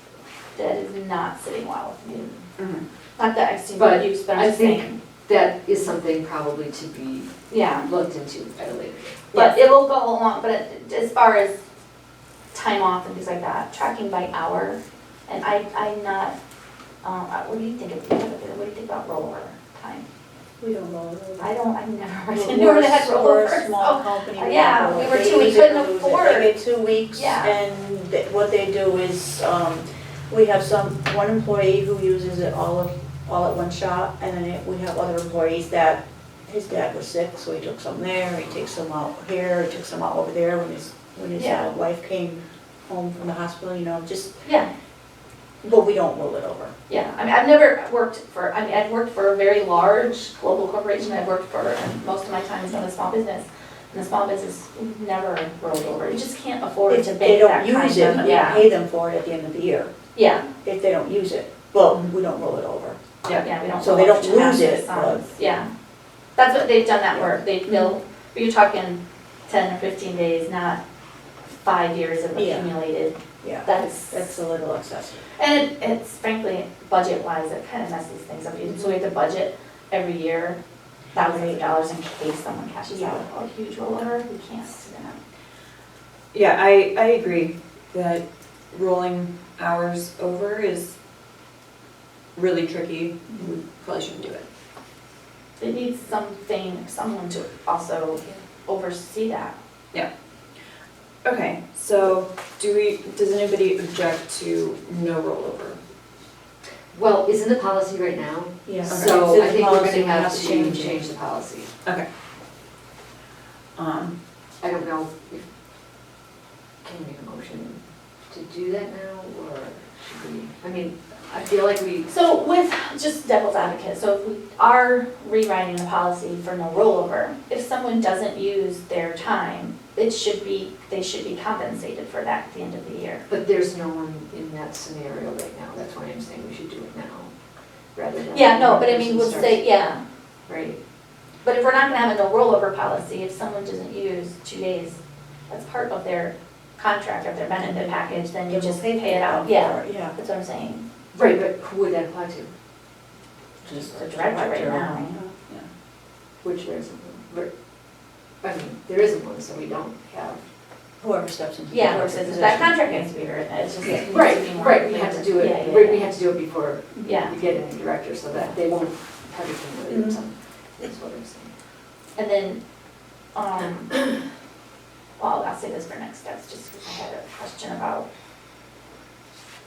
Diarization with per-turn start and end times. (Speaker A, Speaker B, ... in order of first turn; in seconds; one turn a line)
Speaker A: 0.6-2.4
Speaker B: 2.6-2.8
Speaker A: 3.2-5.0
Speaker C: 3.8-9.4
Speaker A: 7.5-7.9
Speaker A: 9.3-11.6
Speaker A: 12.5-16.4
Speaker A: 17.0-20.1
Speaker D: 20.6-21.5
Speaker A: 21.4-26.6
Speaker D: 22.3-44.3
Speaker A: 27.1-27.6
Speaker A: 41.4-41.7
Speaker A: 44.4-44.7
Speaker D: 45.6-46.7
Speaker A: 46.9-58.7
Speaker D: 56.9-59.9
Speaker A: 60.1-60.5
Speaker D: 60.6-63.0
Speaker A: 63.4-65.7
Speaker D: 63.8-65.3
Speaker A: 66.4-70.8
Speaker A: 71.6-74.2
Speaker D: 72.4-72.7
Speaker D: 73.4-75.2
Speaker A: 75.4-80.6
Speaker A: 81.1-85.2
Speaker D: 81.2-81.6
Speaker D: 82.9-83.2
Speaker B: 86.3-91.0
Speaker B: 92.3-94.5
Speaker A: 95.6-99.5
Speaker B: 101.2-105.8
Speaker C: 106.9-111.7
Speaker D: 108.7-111.0
Speaker B: 108.9-109.5
Speaker B: 113.8-114.2
Speaker C: 114.6-115.5
Speaker C: 116.8-122.1
Speaker A: 122.1-133.2
Speaker C: 133.3-137.3
Speaker C: 137.9-139.7
Speaker A: 138.3-140.0
Speaker C: 140.5-140.8
Speaker A: 141.4-145.0
Speaker A: 145.5-150.8
Speaker D: 147.6-150.1
Speaker C: 151.1-152.5
Speaker D: 153.6-155.5
Speaker A: 153.8-155.2
Speaker C: 156.4-157.5
Speaker C: 158.4-160.4
Speaker D: 161.0-163.1
Speaker A: 161.7-166.1
Speaker C: 164.1-171.5
Speaker A: 167.0-167.4
Speaker D: 169.9-170.2
Speaker A: 172.2-172.6
Speaker A: 173.3-174.1
Speaker A: 175.2-178.1